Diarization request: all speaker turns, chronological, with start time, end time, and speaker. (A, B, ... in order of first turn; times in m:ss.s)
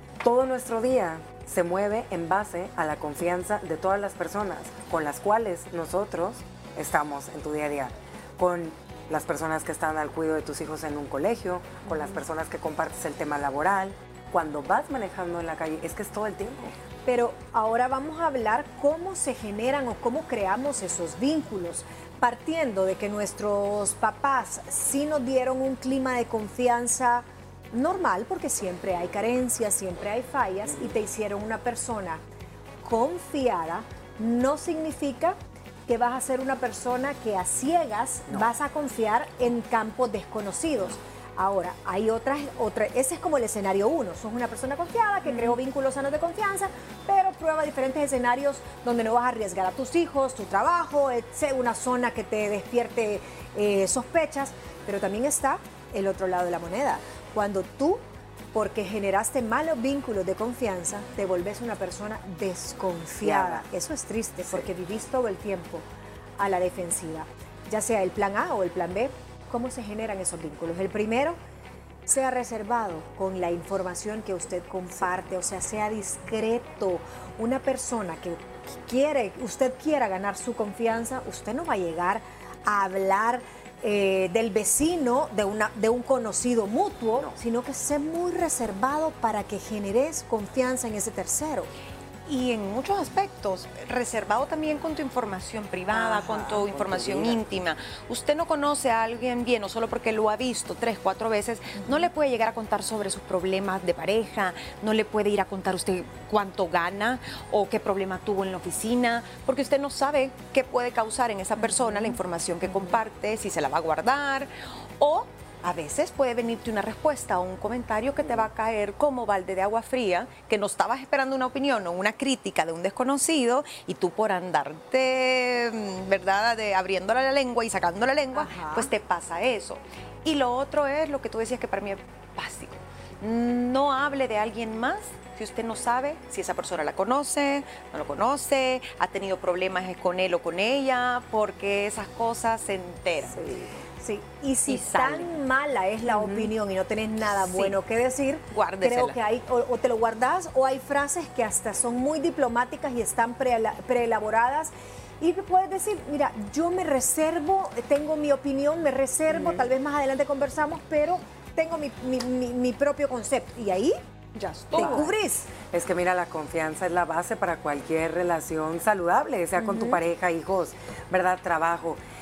0:00.2-0:16.8 A
0:17.1-0:32.2 B
0:32.8-0:58.0 B
0:58.5-1:05.8 B
1:03.2-1:03.6 A
1:06.4-1:11.4 B
1:12.1-1:31.7 B
1:32.3-2:23.4 C
1:36.0-1:37.4 A
1:51.6-1:52.2 B
1:52.7-1:52.9 B
2:08.4-2:08.9 B
2:24.0-2:44.0 B
2:24.7-2:25.3 C
2:26.1-2:26.5 C
2:27.4-2:27.8 C
2:28.5-2:29.2 C
2:44.4-2:45.1 C
2:44.7-2:45.5 B
2:44.8-2:45.1 A
2:45.7-2:52.0 A
2:49.6-2:50.0 B